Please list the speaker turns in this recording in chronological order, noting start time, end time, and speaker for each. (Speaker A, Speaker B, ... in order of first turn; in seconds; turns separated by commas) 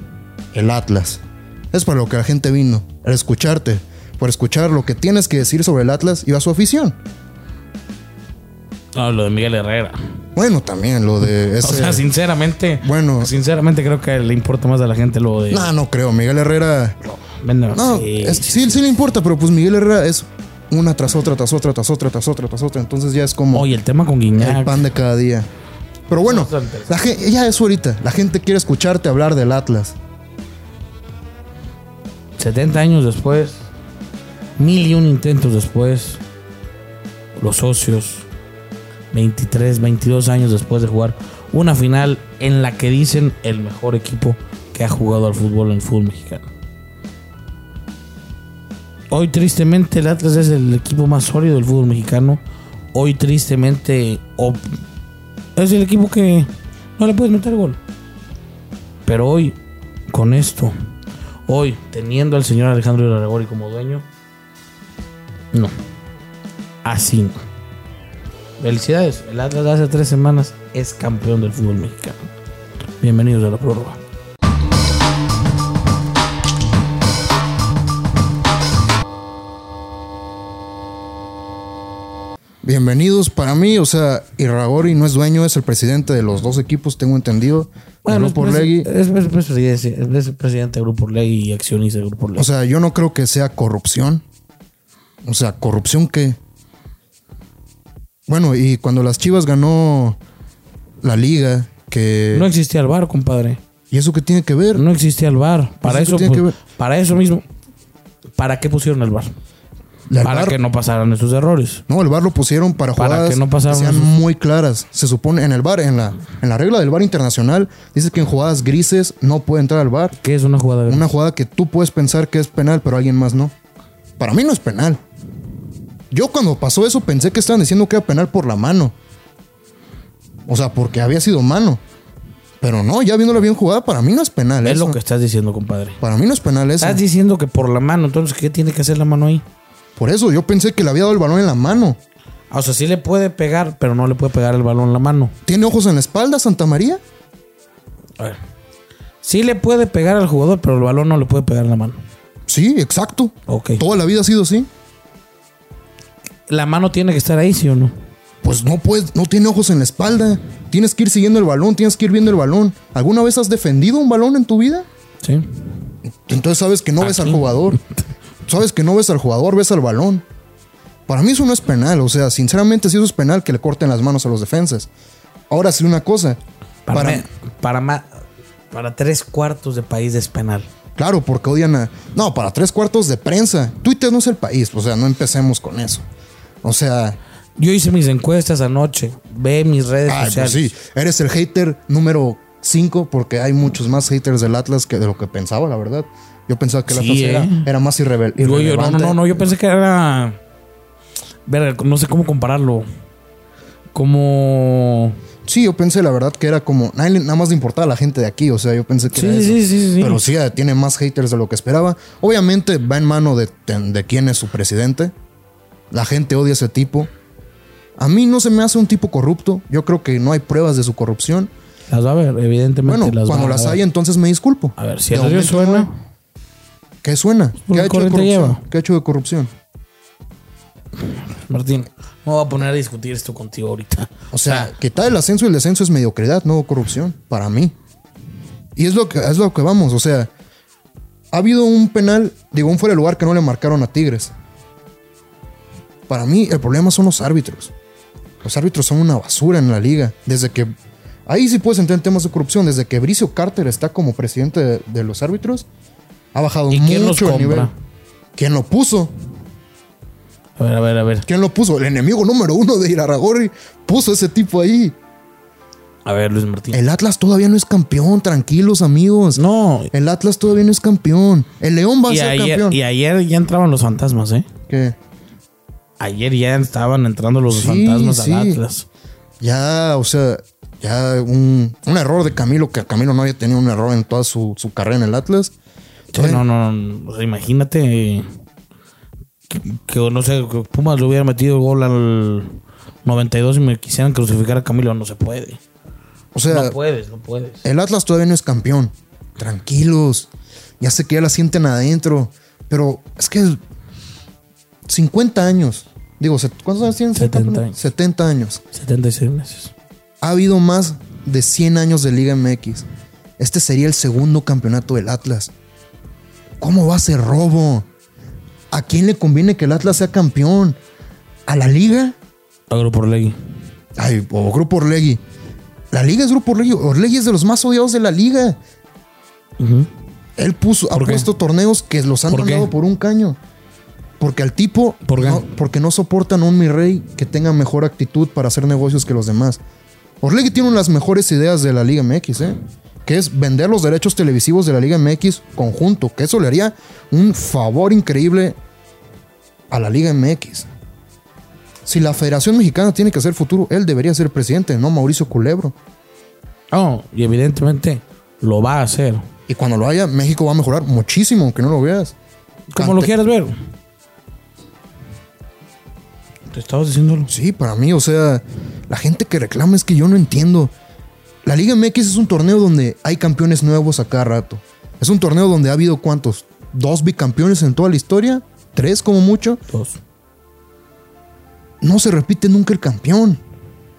Speaker A: 0.5-1.2, Speaker A: 1.7-7.0, Speaker B: 8.9-10.0, Speaker A: 10.4-12.1, Speaker B: 11.6-15.7, Speaker A: 12.8-13.3, Speaker A: 15.5-17.0, Speaker B: 17.0-18.8, Speaker A: 17.7-23.7, Speaker B: 23.5-24.8, Speaker A: 24.4-25.5, Speaker A: 26.1-30.0, Speaker B: 26.2-26.9, Speaker B: 32.4-33.6, Speaker B: 34.6-36.2, Speaker B: 37.4-38.3, Speaker B: 39.1-46.5, Speaker B: 49.1-52.4, Speaker B: 52.9-54.8, Speaker B: 55.6-57.8, Speaker B: 59.0-59.6, Speaker B: 60.1-60.7, Speaker B: 61.5-64.1, Speaker B: 66.8-67.3, Speaker B: 68.6-72.2, Speaker B: 73.0-74.0, Speaker A: 82.6-88.9, Speaker B: 88.0-92.5, Speaker A: 92.4-94.2, Speaker A: 95.2-96.4, Speaker A: 98.3-100.2, Speaker A: 101.0-102.5, Speaker B: 102.3-103.6, Speaker A: 103.9-104.8, Speaker B: 104.7-107.5, Speaker A: 105.8-106.6, Speaker B: 108.4-109.3, Speaker A: 110.1-110.6, Speaker B: 110.2-111.8, Speaker A: 111.9-120.2, Speaker B: 113.0-114.1, Speaker B: 120.2-121.1, Speaker A: 120.9-123.5, Speaker A: 124.2-125.0, Speaker A: 126.1-128.9, Speaker A: 130.5-131.8, Speaker A: 132.6-135.0, Speaker B: 134.6-136.0, Speaker A: 136.0-137.0, Speaker B: 136.8-139.4, Speaker A: 140.0-142.0, Speaker B: 142.5-145.3, Speaker A: 145.5-147.0, Speaker B: 149.2-152.0, Speaker A: 152.5-154.7, Speaker B: 153.5-153.8, Speaker B: 156.5-157.9, Speaker A: 158.4-164.9, Speaker B: 165.2-165.5, Speaker A: 166.2-167.8, Speaker B: 167.0-167.5, Speaker A: 168.5-170.2, Speaker A: 171.1-174.9, Speaker A: 175.5-176.4, Speaker B: 176.9-178.1, Speaker A: 176.9-177.2, Speaker B: 178.7-180.7, Speaker A: 181.0-186.0, Speaker A: 186.6-187.2, Speaker B: 187.6-190.7, Speaker A: 190.1-199.4, Speaker B: 196.9-197.7, Speaker B: 198.4-200.4, Speaker B: 201.5-202.9, Speaker B: 203.9-205.2, Speaker A: 205.5-215.1, Speaker B: 209.1-210.2, Speaker A: 215.9-217.1, Speaker A: 218.0-221.5, Speaker B: 221.9-223.8, Speaker A: 222.8-225.9, Speaker B: 224.8-225.9, Speaker A: 227.0-229.5, Speaker B: 227.7-228.6, Speaker B: 231.1-234.7, Speaker A: 234.3-237.8, Speaker A: 238.8-240.3, Speaker A: 241.3-244.3, Speaker A: 246.1-247.7, Speaker A: 248.4-250.7, Speaker A: 251.3-255.7, Speaker A: 256.3-257.7, Speaker B: 256.7-257.7, Speaker A: 258.4-259.1, Speaker B: 260.6-261.3, Speaker A: 261.2-265.0, Speaker B: 266.1-266.8, Speaker A: 266.7-272.8, Speaker B: 269.4-269.9, Speaker B: 272.1-274.5, Speaker A: 274.7-275.0, Speaker B: 276.0-278.9, Speaker A: 277.5-278.6, Speaker A: 279.4-285.5, Speaker A: 286.1-286.4, Speaker B: 286.1-288.3, Speaker B: 289.5-295.6, Speaker A: 296.3-296.8, Speaker B: 296.5-297.6, Speaker A: 297.6-300.3, Speaker A: 300.8-303.6, Speaker A: 304.9-308.6, Speaker B: 307.1-307.8, Speaker B: 308.7-309.7, Speaker A: 310.2-312.9, Speaker A: 313.4-315.5, Speaker A: 316.6-317.9, Speaker A: 318.7-320.8, Speaker A: 321.5-322.2, Speaker B: 322.7-323.4, Speaker A: 324.0-325.2, Speaker A: 325.9-328.6, Speaker B: 329.6-329.9, Speaker A: 330.4-333.4, Speaker B: 330.9-331.3, Speaker B: 332.3-332.7, Speaker A: 334.2-339.6, Speaker B: 335.1-335.4, Speaker A: 340.2-348.6, Speaker A: 349.7-350.7, Speaker A: 351.9-355.8, Speaker B: 356.7-359.2, Speaker A: 359.5-362.1, Speaker B: 362.7-363.5, Speaker A: 362.8-363.1, Speaker B: 366.5-367.3, Speaker A: 367.3-370.7, Speaker A: 371.4-379.6, Speaker B: 379.7-380.0, Speaker A: 381.8-383.4